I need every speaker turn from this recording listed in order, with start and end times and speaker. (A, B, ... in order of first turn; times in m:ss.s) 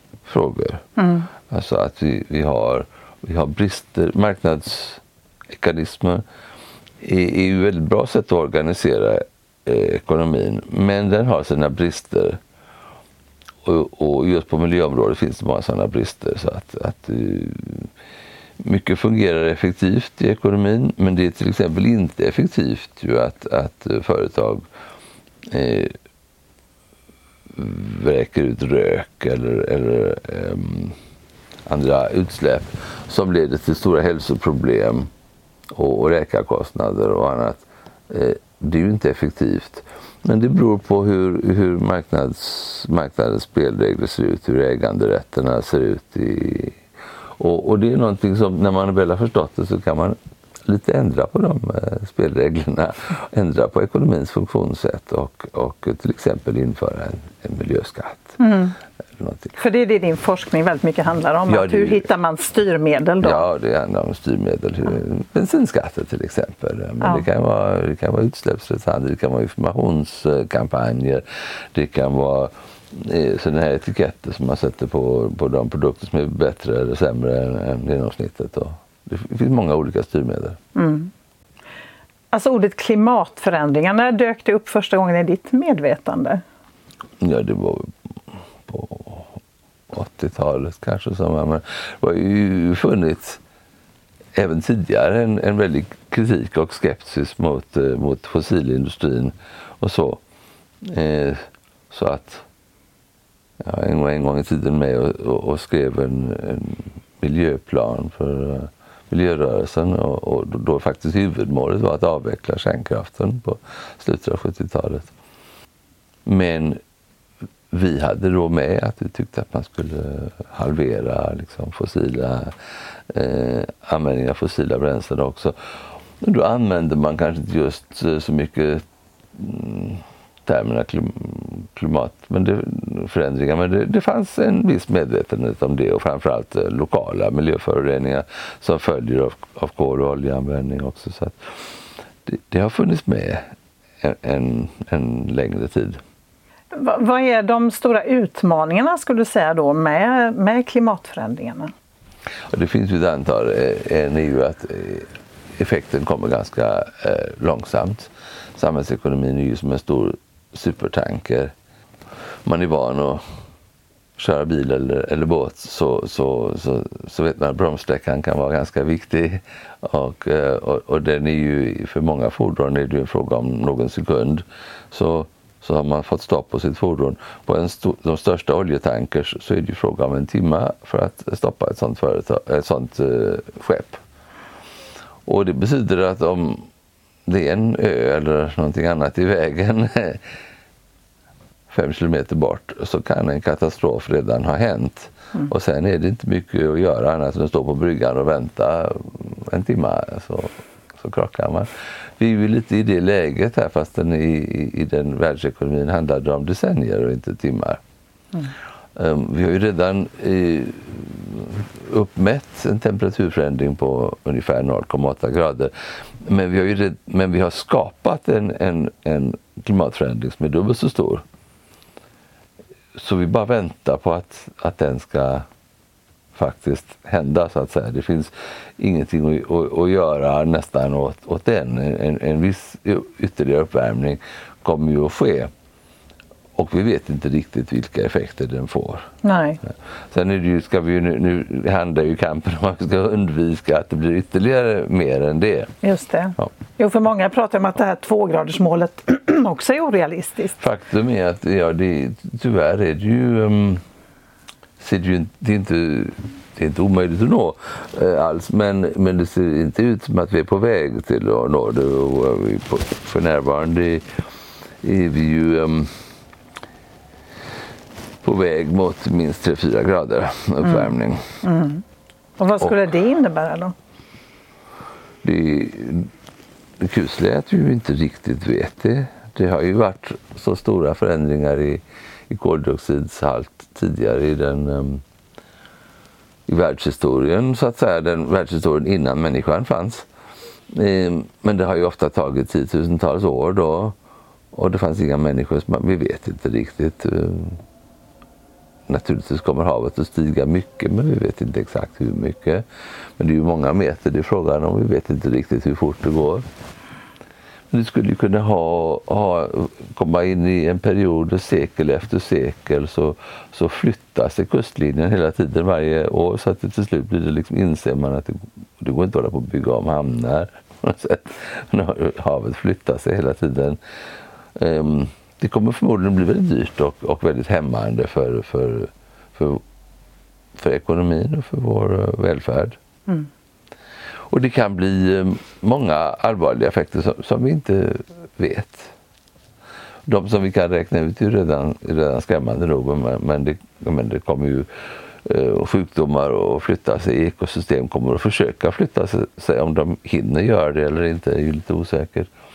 0:00.2-0:00.9 A
0:01.0-0:01.3 B
0:01.5-0:06.2 A
0:07.0-0:12.4 A
0:13.6-0:17.9 A
0:18.6-0:24.6 A
0:25.5-0:25.9 A
0:27.5-0:31.0 A
0:31.7-0:35.1 A
0:35.8-0:46.8 A
0:47.4-0:58.4 A
0:58.4-0:58.8 B
0:59.2-0:59.6 A
0:59.6-1:03.5 B
1:01.5-1:02.0 A
1:03.2-1:20.6 A
1:07.0-1:07.3 B
1:20.8-1:21.1 B
1:22.3-1:26.4 B
1:27.2-1:27.9 A
1:28.7-1:29.4 A
1:29.9-1:33.4 A
1:34.4-1:40.2 A
1:40.8-1:42.5 A
1:43.6-1:55.1 A
1:56.3-1:56.8 A
1:57.7-2:02.5 A
2:03.1-2:05.6 A
2:06.2-2:08.8 A
2:09.4-2:21.4 A
2:22.3-2:23.4 A
2:24.0-2:26.0 A
2:26.7-2:31.7 B
2:32.5-2:41.5 A
2:42.4-2:43.2 A
2:44.2-3:04.0 A
3:05.3-3:06.7 A
3:07.3-3:10.2 A
3:11.7-3:27.8 A
3:29.0-3:41.2 A
3:43.0-3:45.5 A
3:46.3-3:55.5 A
3:56.6-3:59.1 A
3:59.2-3:59.6 B
3:59.7-4:05.7 A
4:05.8-4:10.6 B
4:10.6-4:13.8 A
4:14.8-4:24.0 A
4:24.8-4:26.0 A
4:28.2-4:31.4 A
4:30.6-4:30.9 B
4:31.4-4:31.8 B
4:32.4-4:33.8 B
4:35.2-4:36.1 A
4:36.8-4:45.0 A
4:46.5-4:50.1 A
4:50.7-4:54.0 A
4:54.5-4:57.6 A
4:58.9-5:02.6 A
5:03.2-5:06.4 A
5:07.7-5:23.8 A
5:24.6-5:29.6 A
5:30.6-5:32.8 A
5:34.3-5:38.9 A
5:40.1-5:44.7 A
5:45.2-5:52.3 A